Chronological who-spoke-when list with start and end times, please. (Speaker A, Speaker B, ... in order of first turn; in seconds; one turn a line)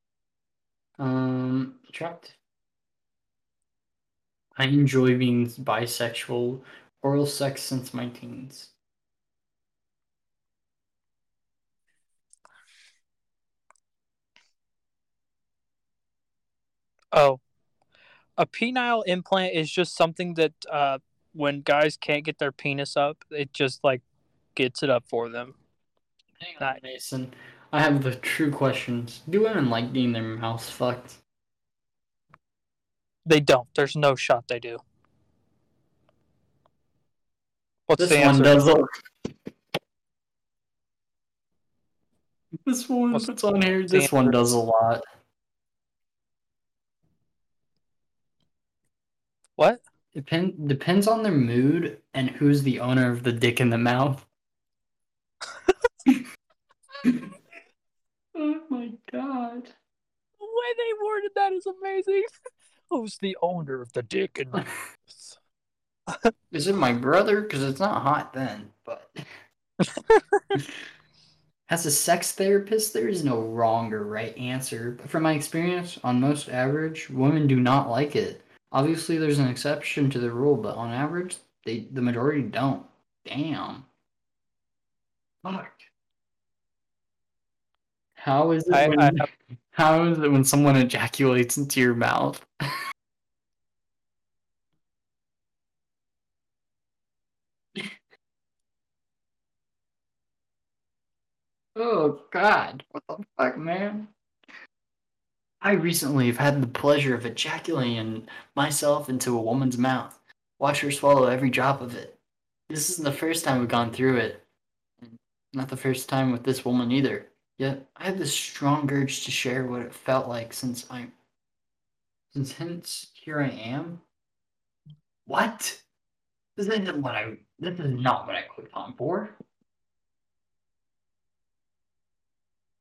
Speaker A: 1.0-2.4
Speaker A: 4.5-8.7
Speaker B: 17.1-17.4
Speaker B: 18.4-24.0
Speaker B: 24.5-25.5
Speaker A: 26.4-31.2
Speaker B: 33.2-34.8
Speaker B: 37.9-38.7
Speaker A: 38.0-38.9
Speaker A: 42.6-45.0
Speaker B: 43.9-44.4
Speaker A: 50.1-54.2
Speaker A: 58.3-59.7
Speaker B: 60.4-62.3
Speaker B: 62.9-65.3
Speaker A: 66.5-69.2
Speaker B: 69.8-70.4
Speaker A: 71.7-83.9
Speaker A: 85.4-85.8
Speaker A: 88.2-92.5
Speaker B: 88.7-89.3
Speaker A: 101.8-104.1
Speaker A: 105.6-114.4
Speaker A: 115.0-121.1
Speaker A: 122.3-124.0
Speaker A: 125.2-125.8
Speaker A: 126.6-129.3